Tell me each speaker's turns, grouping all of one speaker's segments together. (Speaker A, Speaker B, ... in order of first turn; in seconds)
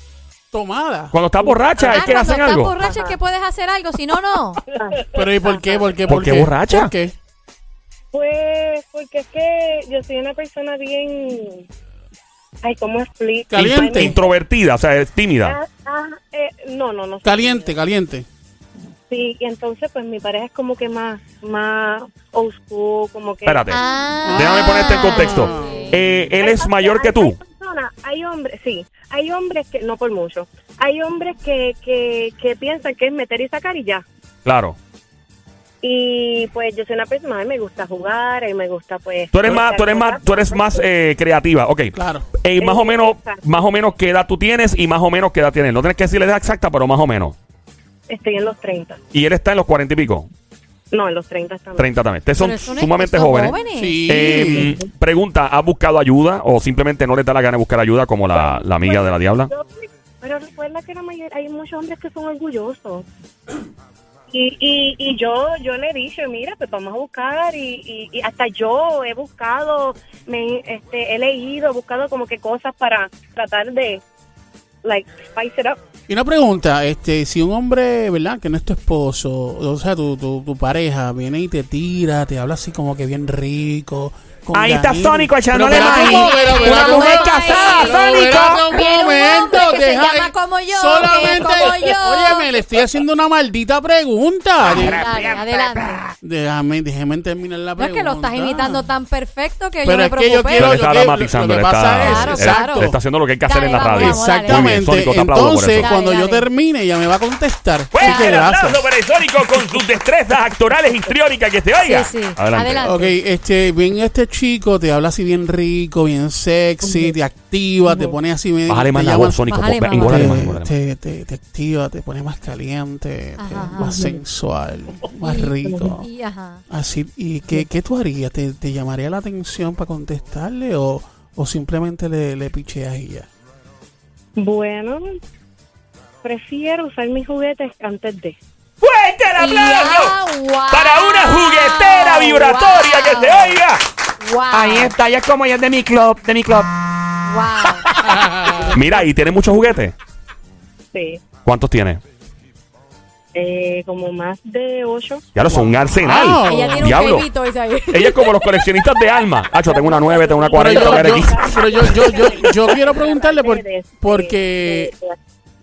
Speaker A: 0.5-1.1, 5.1-7.1, 13.5-14.2, 17.2-18.2, 24.2-25.8, 41.9-42.3, 53.7-54.7, 76.1-95.0, 96.2-98.9, 99.8-103.0, 103.9-108.9, 112.8-119.4, 120.0-126.0, 126.7-133.3, 148.1-148.7, 156.0-157.0, 160.5-164.9
Speaker B: 1.1-2.7, 6.0-6.9, 13.6-15.6, 23.4-23.8, 24.3-27.4, 34.4-34.8, 39.3-47.4, 49.1-50.3, 51.8-59.5, 100.5-105.9, 107.9-112.8, 118.7-120.7, 138.8-140.2, 140.7-143.8, 148.7-149.9, 151.4-152.0, 155.3-157.3, 157.9-161.9
Speaker C: 1.5-2.1, 2.8-3.1, 4.7-6.0, 8.1-11.7, 12.6-14.3, 15.4-17.7, 19.1-24.0, 25.2-34.0, 35.8-40.9, 42.6-43.6, 48.1-49.0, 50.9-52.0, 54.1-54.9, 58.3-59.7, 60.2-63.0, 64.3-74.0, 74.8-75.8, 110.8-111.1, 116.8-117.1, 117.8-118.2, 125.6-125.9, 134.4-135.1, 136.2-138.4, 150.9-151.2, 153.3-155.9, 159.5-165.1
Speaker D: 1.8-4.6, 23.7-25.9, 52.4-54.1, 85.7-92.5, 94.8-96.0, 97.8-100.8, 102.0-102.9, 103.4-104.8, 105.8-106.5, 108.0-108.4, 111.8-113.2, 119.5-120.5, 123.4-124.0, 125.2-126.6, 139.4-143.5, 144.2-144.9, 147.2-147.8, 156.4-158.6
Speaker E: 84.5-88.6, 95.0-95.9, 144.5-146.7